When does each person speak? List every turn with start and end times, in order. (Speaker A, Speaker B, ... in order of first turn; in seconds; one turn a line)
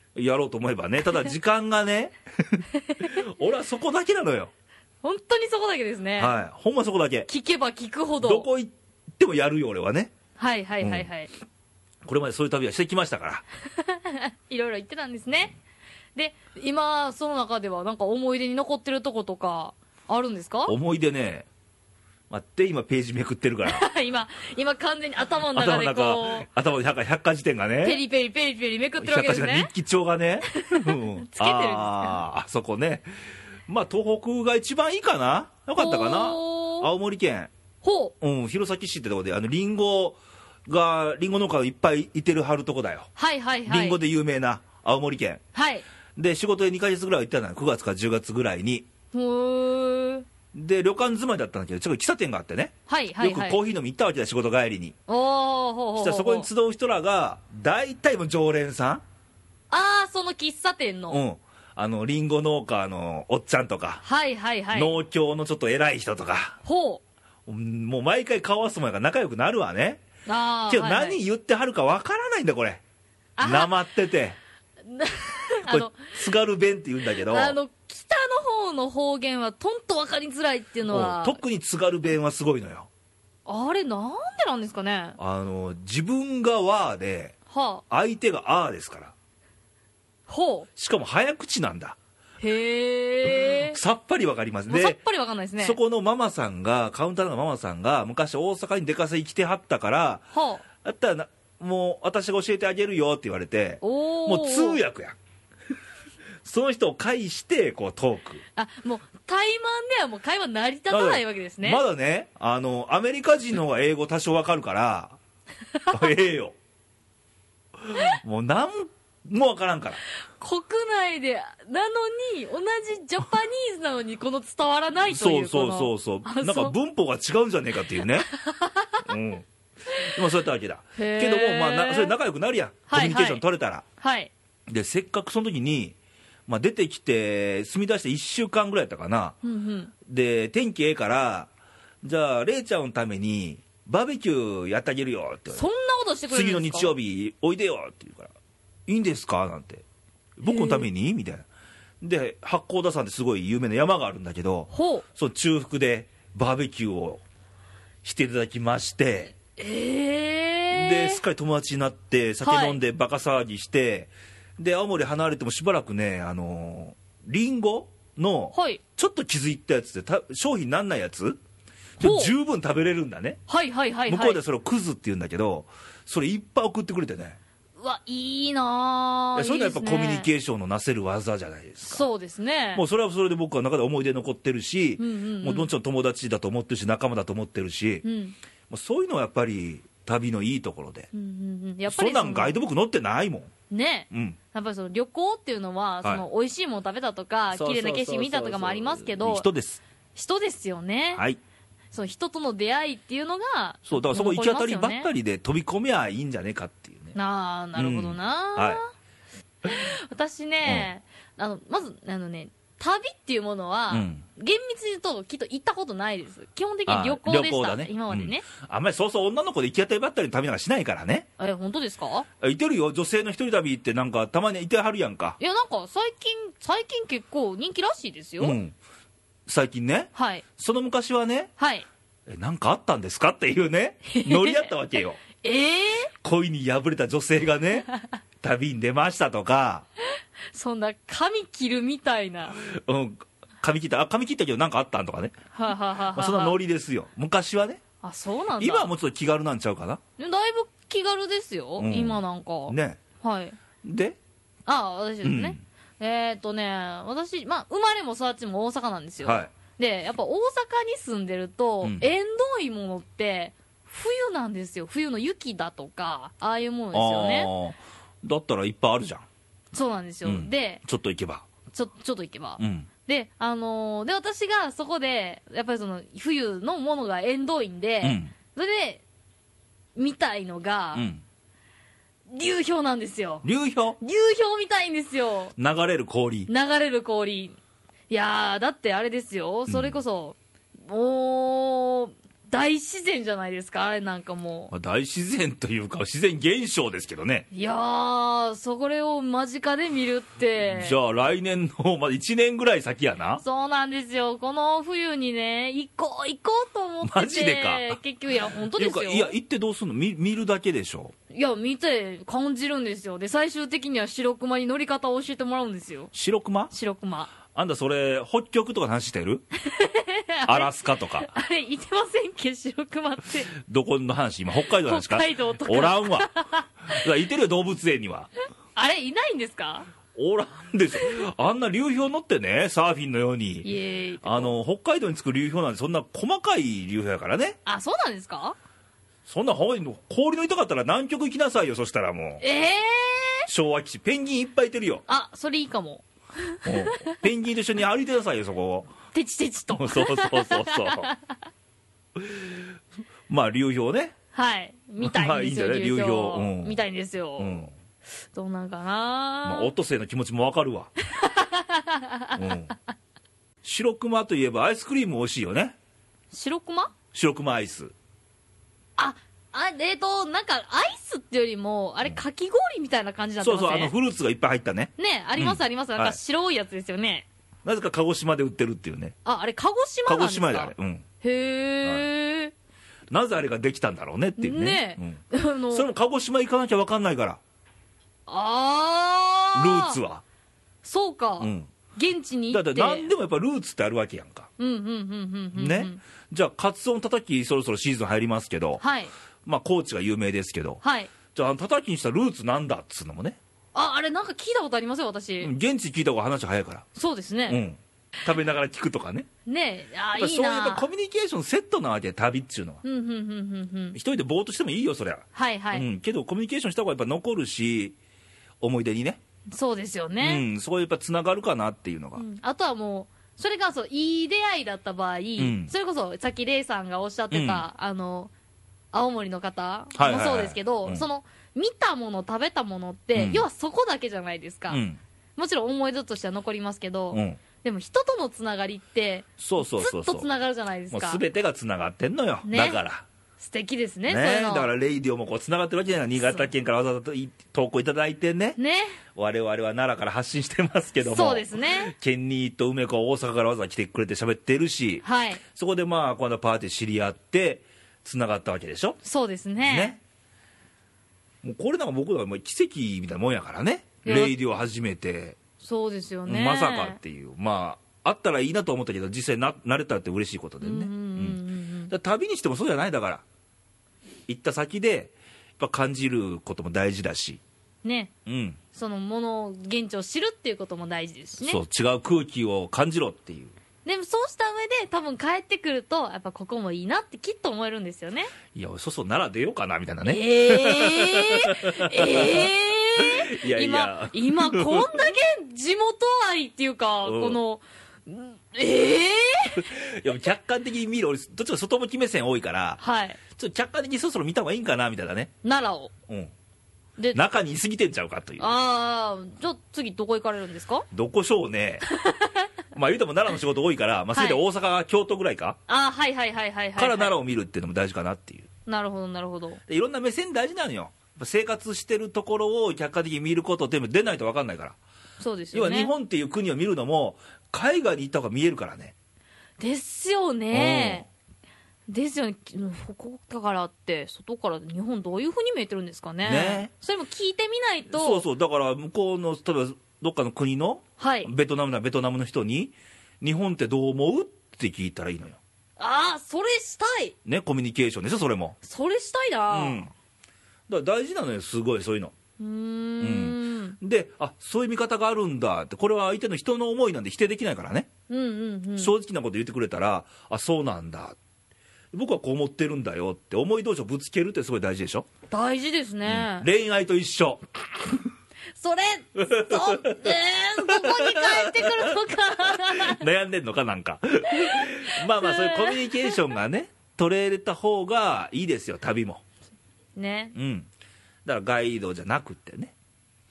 Speaker A: 0.1-4.5
Speaker B: 2.8-3.1
Speaker B: 5.0-6.3
Speaker A: 6.2-7.3
Speaker B: 7.3-8.5
Speaker A: 8.2-10.1
Speaker B: 10.4-11.3
Speaker A: 10.8-11.1
Speaker A: 12.0-13.4
Speaker B: 13.7-15.5
Speaker B: 16.1-20.7
Speaker A: 20.7-21.5
Speaker A: 22.3-23.9
Speaker B: 23.6-26.5
Speaker A: 25.5-28.0
Speaker B: 27.8-29.7
Speaker A: 29.0-33.0
Speaker B: 30.5-32.2
Speaker A: 33.7-37.5
Speaker B: 35.8-36.9
Speaker B: 37.8-38.1
Speaker A: 38.2-43.1
Speaker B: 43.1-44.0
Speaker A: 43.6-45.4
Speaker B: 45.5-45.8
Speaker A: 46.1-48.9
Speaker B: 49.1-50.2
Speaker A: 50.5-54.9
Speaker B: 52.9-53.6
Speaker B: 55.1-56.5
Speaker A: 56.0-59.0
Speaker B: 59.7-61.2
Speaker A: 61.1-64.0
Speaker B: 64.0-64.9
Speaker A: 64.7-66.6
Speaker B: 66.6-67.0
Speaker A: 67.5-70.0
Speaker B: 70.3-71.2
Speaker A: 70.7-72.8
Speaker B: 73.4-73.7
Speaker A: 73.4-74.4
Speaker B: 74.8-76.0
Speaker A: 75.6-77.6
Speaker B: 77.2-81.4
Speaker A: 80.9-82.9
Speaker B: 83.5-85.2
Speaker A: 85.2-87.3
Speaker B: 87.5-87.8
Speaker A: 87.9-89.1
Speaker B: 90.3-90.7
Speaker A: 90.8-92.0
Speaker B: 92.4-93.8
Speaker A: 93.3-95.0
Speaker B: 94.7-95.8
Speaker A: 95.6-100.2
Speaker B: 100.3-100.6
Speaker A: 100.8-105.2
Speaker B: 103.8-104.8
Speaker A: 106.4-108.4
Speaker B: 108.5-111.8
Speaker A: 110.9-115.2
Speaker A: 115.9-116.5
Speaker A: 117.8-120.0
Speaker B: 120.4-126.7
Speaker A: 125.1-128.3
Speaker B: 128.3-129.1
Speaker A: 129.0-129.4
Speaker A: 130.0-133.8
Speaker B: 130.9-132.1
Speaker B: 132.9-133.4
Speaker B: 134.0-134.3
Speaker A: 134.7-135.9
Speaker A: 136.5-139.3
Speaker B: 139.4-139.9
Speaker A: 140.0-141.5
Speaker A: 142.0-145.7
Speaker B: 145.5-146.9
Speaker A: 146.3-148.3
Speaker A: 148.9-149.8
Speaker A: 150.4-151.4
Speaker B: 150.4-150.9
Speaker A: 152.0-157.2
Speaker B: 154.7-155.0
Speaker A: 158.0-159.3
Speaker B: 159.6-161.2
Speaker A: 160.7-171.4
Speaker B: 162.4-162.8
Speaker B: 168.5-168.8
Speaker A: 172.0-173.4
Speaker B: 172.0-172.3
Speaker B: 173.5-174.4
Speaker A: 174.1-177.4
Speaker B: 177.8-180.3
Speaker A: 179.3-182.1
Speaker B: 181.8-182.8
Speaker A: 182.7-188.0
Speaker B: 185.0-185.7
Speaker B: 188.0-188.3
Speaker A: 188.7-191.1
Speaker B: 191.1-192.6
Speaker A: 191.9-193.5
Speaker B: 193.7-199.4
Speaker A: 194.1-194.4
Speaker A: 197.5-199.8
Speaker B: 200.2-201.2
Speaker B: 201.9-205.1
Speaker A: 203.8-207.1
Speaker B: 207.1-208.9
Speaker A: 207.8-208.8
Speaker B: 209.6-218.5
Speaker A: 213.9-214.2
Speaker A: 216.9-221.3
Speaker B: 221.4-222.3
Speaker A: 222.4-225.4
Speaker B: 225.4-228.6
Speaker A: 228.4-228.7
Speaker A: 229.5-231.5
Speaker B: 230.1-230.4
Speaker B: 231.6-231.8
Speaker A: 232.3-235.2
Speaker B: 234.1-234.7
Speaker B: 235.4-236.1
Speaker A: 236.2-237.9
Speaker A: 238.4-239.8
Speaker B: 240.5-242.6
Speaker A: 242.6-245.3
Speaker B: 245.5-246.6
Speaker A: 246.1-247.8
Speaker B: 248.0-248.9
Speaker A: 248.6-250.0
Speaker B: 250.2-253.6
Speaker A: 251.8-253.0
Speaker A: 253.8-254.2
Speaker B: 254.7-267.5
Speaker A: 255.2-255.6
Speaker A: 259.2-259.5
Speaker A: 261.8-262.1
Speaker A: 266.9-269.2
Speaker B: 269.7-270.8
Speaker A: 270.2-271.4
Speaker B: 271.7-279.0
Speaker A: 272.6-272.9
Speaker A: 278.0-278.3
Speaker B: 279.9-281.0
Speaker A: 280.9-281.2
Speaker B: 282.3-283.5
Speaker A: 283.4-284.0
Speaker B: 284.0-285.5
Speaker A: 285.6-286.5
Speaker B: 286.5-287.6
Speaker B: 288.1-294.7
Speaker A: 289.7-290.0
Speaker A: 294.7-297.5
Speaker B: 297.5-301.0
Speaker A: 300.6-303.4
Speaker B: 303.4-309.3
Speaker A: 307.0-308.0
Speaker A: 308.7-311.1
Speaker B: 311.3-316.1
Speaker A: 316.1-316.7
Speaker B: 316.7-317.3
Speaker A: 317.5-319.4
Speaker B: 319.6-323.5
Speaker A: 320.4-321.3
Speaker A: 323.5-326.3
Speaker B: 324.8-327.0
Speaker A: 326.9-328.3
Speaker B: 328.7-329.9
Speaker A: 330.1-333.7
Speaker B: 333.6-334.5
Speaker A: 334.2-337.6
Speaker B: 337.6-338.6
Speaker A: 339.2-342.4
Speaker B: 342.4-343.5
Speaker A: 343.5-345.0
Speaker B: 345.1-347.1
Speaker A: 346.6-348.9
Speaker B: 349.1-351.3
Speaker A: 349.7-351.1
Speaker A: 352.1-352.6
Speaker A: 353.3-354.1
Speaker B: 354.3-357.7
Speaker A: 355.0-356.8
Speaker A: 357.4-357.7
Speaker B: 358.3-359.7
Speaker A: 359.4-360.9
Speaker B: 361.1-362.6
Speaker A: 362.3-362.7
Speaker A: 363.6-365.8
Speaker B: 366.3-366.9
Speaker A: 367.1-367.9
Speaker B: 369.0-373.9
Speaker A: 373.4-376.2
Speaker B: 375.0-377.3
Speaker A: 377.6-379.1
Speaker B: 379.2-382.5
Speaker A: 380.1-381.1
Speaker A: 383.1-387.4
Speaker B: 384.4-385.9
Speaker B: 388.3-390.0
Speaker A: 389.5-390.2
Speaker B: 390.8-393.1
Speaker A: 391.4-391.7
Speaker A: 392.5-394.5
Speaker B: 394.6-396.0
Speaker A: 395.5-398.8
Speaker B: 398.8-399.1
Speaker A: 399.4-403.4
Speaker B: 400.8-401.1
Speaker B: 403.7-405.5
Speaker A: 405.4-406.8
Speaker B: 406.9-407.6
Speaker A: 407.5-409.3
Speaker B: 409.4-410.9
Speaker A: 410.1-412.8
Speaker B: 412.8-414.0
Speaker A: 413.9-417.9
Speaker B: 415.3-415.9
Speaker A: 418.6-419.2
Speaker B: 419.5-420.4
Speaker A: 420.2-422.2
Speaker B: 422.1-428.3
Speaker A: 425.4-425.7
Speaker A: 427.3-427.6
Speaker B: 428.9-434.8
Speaker A: 429.9-431.1
Speaker A: 433.1-433.4
Speaker A: 434.7-435.0
Speaker B: 435.4-441.2
Speaker A: 437.1-437.4
Speaker A: 439.4-440.3
Speaker A: 440.9-443.1
Speaker B: 442.4-442.8
Speaker B: 443.4-444.7
Speaker A: 444.1-448.6
Speaker B: 446.2-446.5
Speaker B: 448.6-449.0
Speaker A: 449.1-459.0
Speaker B: 451.0-451.9
Speaker B: 455.0-455.4
Speaker B: 459.0-459.9
Speaker A: 459.6-460.0
Speaker A: 461.4-465.4
Speaker B: 464.0-464.3
Speaker B: 465.6-467.0
Speaker A: 466.3-471.4
Speaker B: 470.6-471.9
Speaker A: 471.9-473.2
Speaker A: 474.3-477.4
Speaker B: 477.8-478.1
Speaker A: 478.2-478.6
Speaker B: 478.7-481.6
Speaker A: 481.4-483.5
Speaker B: 483.8-488.3
Speaker A: 488.5-494.9
Speaker B: 490.0-499.6
Speaker A: 497.0-497.4
Speaker A: 499.6-502.8
Speaker B: 502.8-503.2
Speaker A: 503.3-505.3
Speaker B: 505.4-505.9
Speaker A: 507.1-508.5
Speaker B: 508.4-510.9
Speaker A: 510.9-511.9
Speaker B: 511.9-512.4
Speaker A: 512.7-515.6
Speaker B: 514.1-514.4
Speaker B: 515.7-517.1
Speaker A: 516.8-518.5
Speaker B: 518.6-519.6
Speaker A: 519.7-524.8
Speaker B: 525.2-525.9
Speaker A: 525.5-528.9
Speaker B: 529.6-531.0
Speaker A: 530.5-531.0
Speaker B: 531.9-538.2
Speaker A: 536.2-536.7
Speaker A: 537.9-545.4
Speaker B: 541.0-541.3
Speaker B: 545.8-547.1
Speaker A: 547.2-548.6
Speaker B: 548.6-549.9
Speaker A: 549.5-549.9
Speaker A: 550.7-552.1
Speaker B: 552.4-553.8
Speaker A: 553.0-557.9
Speaker B: 558.1-558.9
Speaker A: 558.8-561.2
Speaker A: 561.9-565.1
Speaker B: 565.3-566.5
Speaker A: 566.0-568.0
Speaker B: 568.5-573.0
Speaker A: 569.2-572.0
Speaker A: 572.5-579.2
Speaker B: 574.3-576.2
Speaker B: 580.0-580.3
Speaker A: 580.3-580.7
Speaker A: 581.2-582.7